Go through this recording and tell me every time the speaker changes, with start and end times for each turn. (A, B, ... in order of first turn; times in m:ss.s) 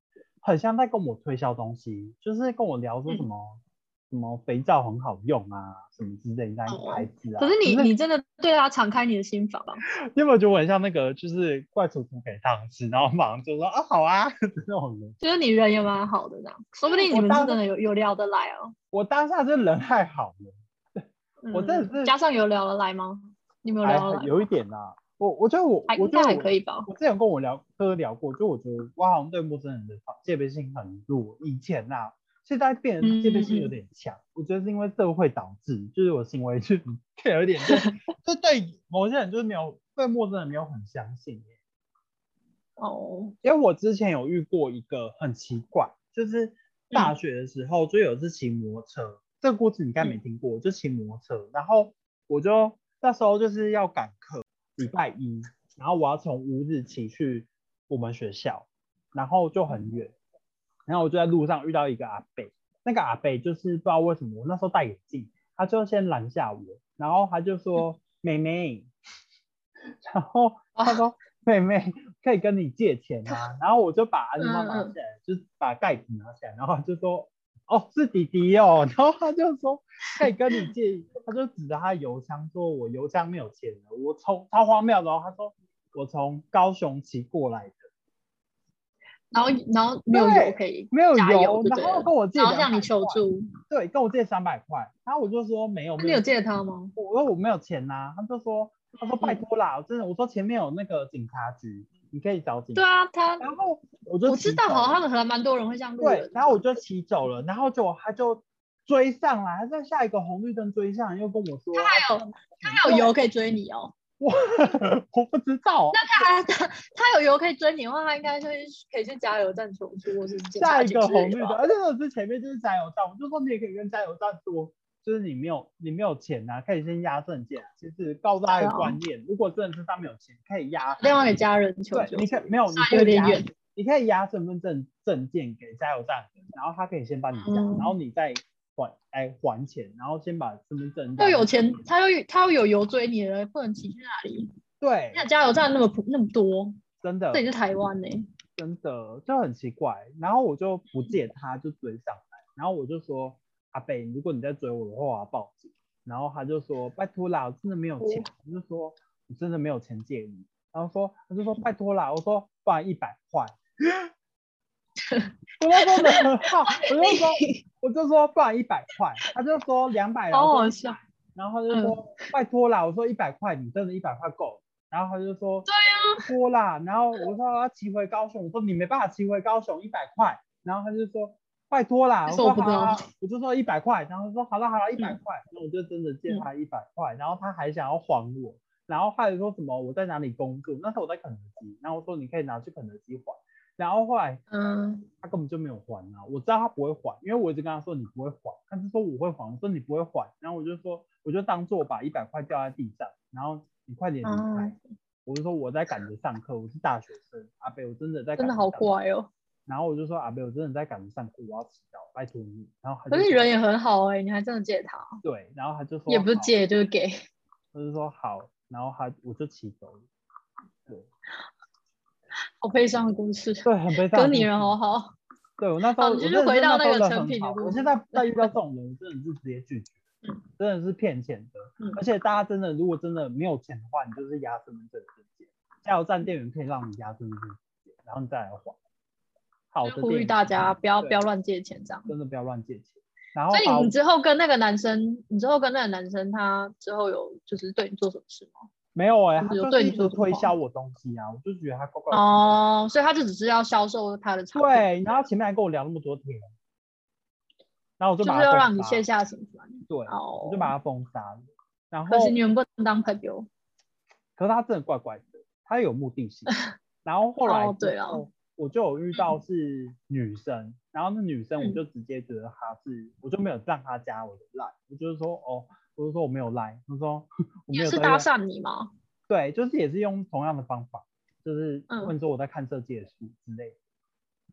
0:00.4-0:07.9 A
0:06.7-0:09.8 B
0:09.9-0:15.2 A
0:15.2-0:18.7 B
0:16.9-0:17.6 A
0:18.9-0:22.1 A
0:21.4-0:24.5 B
0:23.8-0:41.5 A
0:25.9-0:26.9 B
0:33.0-0:33.7 B
0:42.8-0:43.3 B
0:43.4-1:00.1 A
1:00.9-1:08.9 A
1:10.0-1:27.8 A
1:14.4-1:14.9 B
1:20.2-1:20.6 B
1:29.3-1:33.4 B
1:30.1-1:36.2 A
1:36.0-1:36.9 B
1:37.0-1:42.8 A
1:39.0-1:39.4 B
1:42.7-1:43.5 B
1:43.4-1:45.0 A
1:44.2-1:46.8 B
1:46.0-1:52.0 A
1:51.7-1:53.9 B
1:52.6-1:53.1 A
1:54.2-1:56.3 A
1:55.9-2:01.6 B
2:00.5-2:11.0 A
2:08.5-2:09.0 B
2:10.9-2:13.5 B
2:11.9-2:21.5 A
2:17.4-2:17.9 B
2:21.2-2:24.5 B
2:24.8-2:25.2 A
2:25.1-2:26.8 B
2:27.0-2:27.5 A
2:27.3-2:28.3 B
2:28.6-2:44.0 A
2:38.0-2:38.3 B
2:45.1-2:47.6 B
2:45.6-2:55.7 A
2:50.3-2:51.0 B
2:51.7-2:52.3 B
2:55.7-2:56.3 B
2:56.2-3:14.4 A
3:02.3-3:03.0 B
3:14.5-3:15.1 B
3:15.2-3:28.9 A
3:24.2-3:24.8 B
3:28.4-3:29.3 B
3:29.6-3:33.5 A
3:33.1-3:35.2 B
3:35.2-3:36.6 A
3:36.1-3:37.2 B
3:37.7-3:40.0 A
3:42.6-3:45.1 B
3:43.6-3:44.8 A
3:45.6-3:50.0 A
3:46.0-3:48.5 B
3:50.6-3:58.8 A
3:59.7-4:00.4 A
3:59.8-4:02.1 B
4:02.1-4:03.9 A
4:03.5-4:08.6 B
4:08.9-4:12.3 A
4:09.4-4:10.5 B
4:12.1-4:15.2 B
4:14.5-4:16.5 A
4:18.0-4:19.0 A
4:18.2-4:20.7 B
4:19.9-4:21.4 A
4:21.9-4:22.4 A
4:22.1-4:23.5 B
4:24.4-4:38.2 A
4:27.4-4:28.2 B
4:37.7-4:38.9 B
4:39.3-4:43.8 A
4:41.9-4:42.1 B